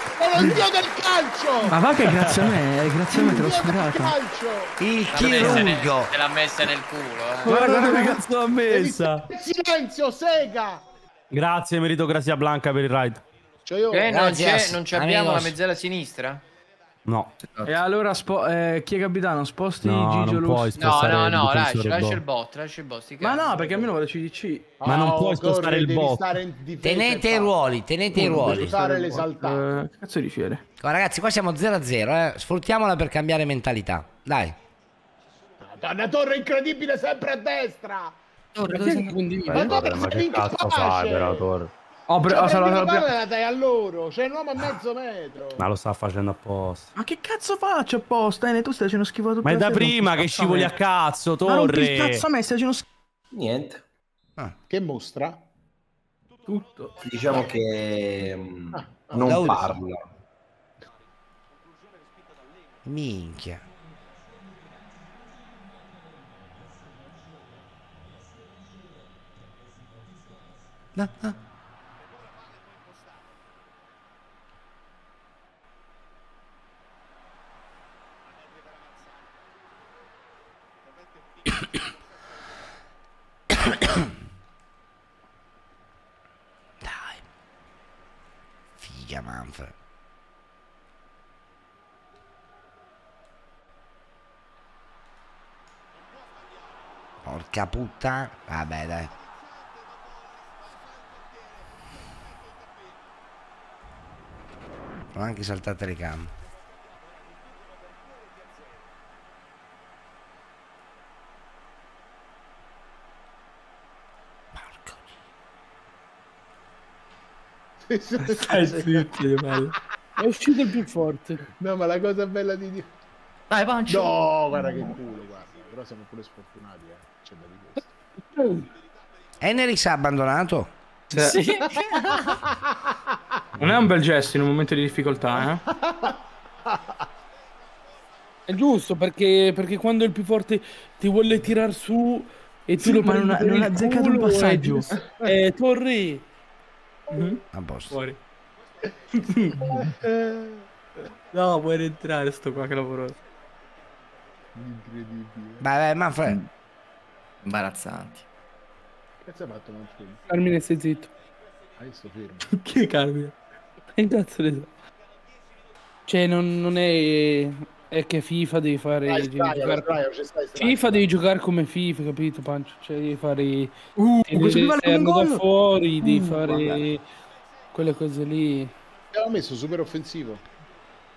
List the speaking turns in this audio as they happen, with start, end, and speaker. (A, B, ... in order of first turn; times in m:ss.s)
0:00.2-0:01.8 A
0:01.6-0:04.2 B
0:02.0-0:02.5 C
0:03.1-0:04.8 A
0:04.8-0:06.1 D
0:05.1-0:07.6 E
0:07.4-0:08.2 B
0:07.4-0:09.2 C
0:08.7-0:10.8 A
0:11.3-0:13.2 C
0:13.6-0:14.1 A
0:13.9-0:16.4 E
0:14.1-0:15.6 D
0:17.0-0:17.3 C
0:17.6-0:20.8 B
0:19.8-0:22.2 C
0:20.8-0:23.5 E
0:23.2-0:24.7 B
0:23.5-0:23.9 A
0:24.8-0:27.6 A
0:24.8-0:26.4 C
0:26.8-0:28.8 D
0:28.1-0:30.6 B
0:28.1-0:29.8 A
0:28.4-0:28.7 C
0:30.8-0:34.6 D
0:35.6-0:38.2 A
0:38.6-0:39.8 F
0:38.7-0:41.6 A
0:39.0-0:39.4 G
0:39.5-0:41.7 C
0:42.1-0:43.1 B
0:42.3-0:45.7 A
0:45.6-0:46.9 C
0:46.9-0:50.8 B
0:49.4-0:52.2 C
0:51.4-0:52.8 B
0:53.3-0:53.8 H
0:54.7-0:55.4 A
0:56.4-0:56.9 B
0:57.0-1:00.1 H
0:58.7-0:59.7 A
0:59.2-0:59.8 D
1:02.8-1:03.6 D
1:10.9-1:11.4 D
1:26.8-1:27.2 D
1:28.8-1:29.7 D
1:37.2-1:39.1 D
1:45.1-1:46.3 D
1:54.6-1:55.0 D
1:57.9-1:59.1 A
1:58.2-1:59.7 B
2:00.2-2:01.4 G
2:01.5-2:02.9 A
2:03.5-2:04.9 F
2:03.8-2:07.9 A
2:09.4-2:10.7 D
2:11.1-2:11.4 B
2:11.1-2:12.3 E
2:11.9-2:12.6 A
2:13.6-2:15.6 B
2:15.4-2:16.2 A
2:18.5-2:26.2 G
2:22.8-2:24.9 B
2:24.9-2:25.4 A
2:27.1-2:27.4 B
2:27.5-2:28.0 D
2:27.9-2:28.2 B
2:29.1-2:29.6 B
2:29.7-2:30.6 A
2:31.3-2:33.2 B
2:34.5-2:35.6 A
2:35.6-2:36.4 D
2:37.4-2:38.2 F
2:39.2-2:40.2 A
2:40.3-2:41.1 G
2:41.8-2:42.5 A
2:42.5-2:43.4 B
2:43.9-2:44.7 G
2:46.1-2:50.0 G
2:49.0-2:51.2 A
2:50.6-2:57.0 G
2:54.0-2:55.4 B
2:56.0-2:56.8 B
2:57.7-2:58.7 G
2:59.1-3:00.4 A